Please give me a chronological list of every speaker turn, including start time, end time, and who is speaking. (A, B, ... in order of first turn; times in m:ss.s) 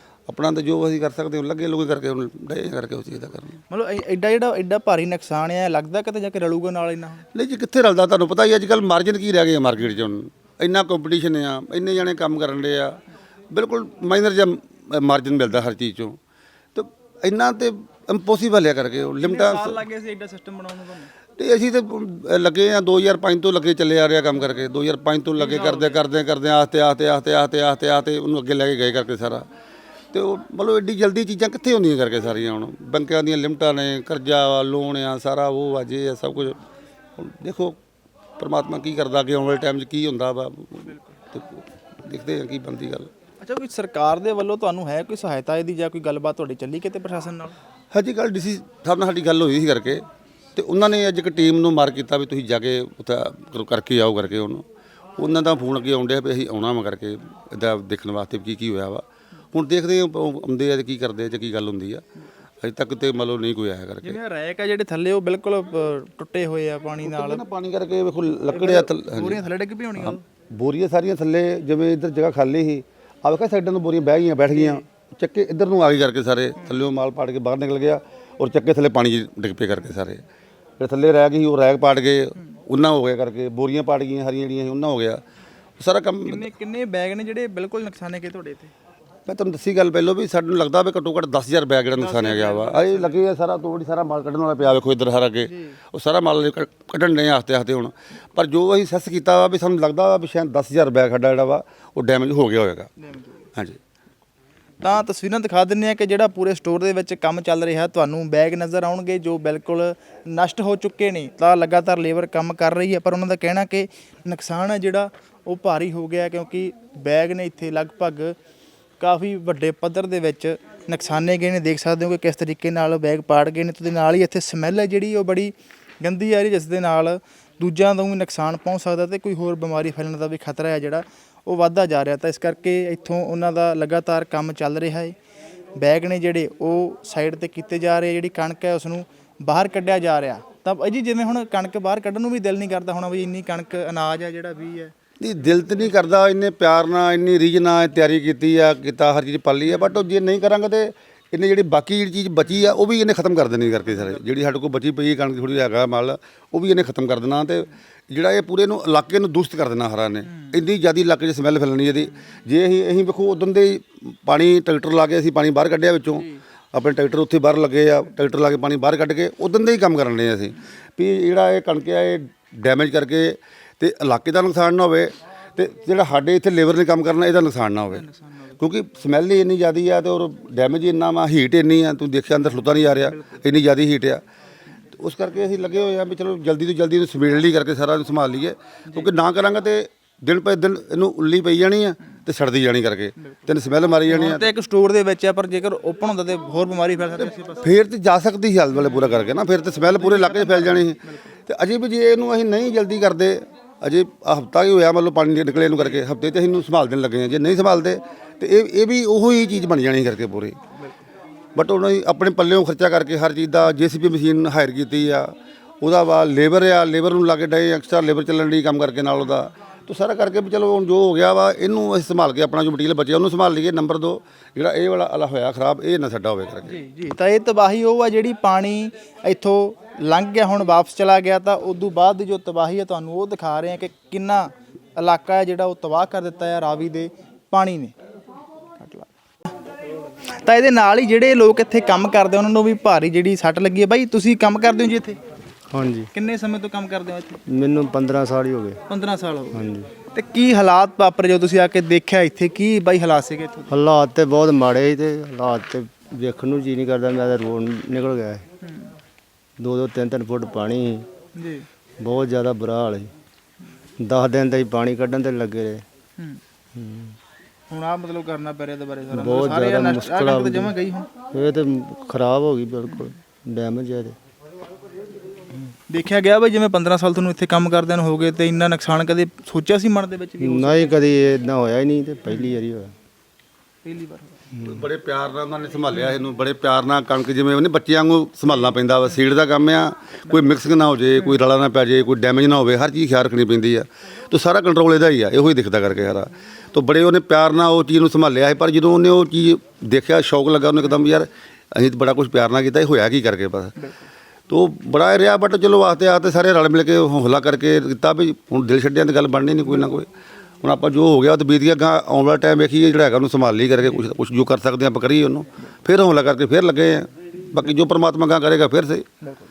0:00.3-0:03.6 A
0:03.7-0:07.2 B
0:07.3-0:13.0 A
0:13.5-0:16.2 A
0:16.8-0:19.8 A
0:19.2-0:21.1 B
0:21.4-0:29.5 A
0:25.4-0:26.0 B
0:30.1-0:36.6 A
0:37.2-0:37.8 A
0:38.4-0:43.1 A
0:43.4-0:47.6 B
0:47.9-0:54.6 A
0:55.2-1:02.0 A
1:02.6-1:04.2 A
1:04.0-1:07.4 B
1:07.0-1:09.4 A
1:08.5-1:10.2 B
1:10.0-1:20.2 A
1:14.5-1:14.8 B
1:20.8-1:25.2 A
1:25.8-1:26.5 A
1:26.2-1:28.7 B
1:29.3-1:42.9 A
1:32.0-1:33.2 B
1:35.5-1:35.8 B
1:43.0-1:43.4 B
1:44.8-1:58.4 B
1:59.0-2:15.2 B
2:15.8-2:24.9 B
2:25.2-2:58.1 A
2:29.7-2:30.0 B
2:32.4-2:32.7 B
2:40.3-2:40.6 B
2:58.0-2:58.5 B
2:58.6-3:04.2 A
3:02.9-3:03.4 B
3:05.0-3:14.5 A
3:14.1-3:17.7 B
3:17.5-3:30.6 A
3:18.8-3:19.2 B
3:19.8-3:21.3 B
3:31.6-3:46.8 A
3:46.7-3:58.0 B
3:58.8-3:59.1 B
4:00.3-4:05.2 B
4:05.7-4:06.1 C
4:06.1-4:07.4 B
4:07.5-4:08.8 C
4:08.9-4:13.8 B
4:09.5-4:09.9 C
4:13.7-4:18.4 C
4:18.6-4:18.9 B
4:19.6-4:21.1 C
4:21.4-4:21.7 B
4:22.0-4:23.1 C
4:24.0-4:25.8 C
4:26.7-4:27.2 C
4:27.7-4:31.1 B
4:29.1-4:30.7 C
4:31.3-4:34.2 C
4:32.9-4:33.1 B
4:35.9-4:41.0 B
4:40.4-4:42.9 C
4:42.3-4:42.6 B
4:43.8-4:44.3 B
4:44.5-4:44.8 C
4:44.6-5:03.8 A
5:03.8-5:04.1 B
5:04.5-5:10.1 A
5:10.6-5:19.1 A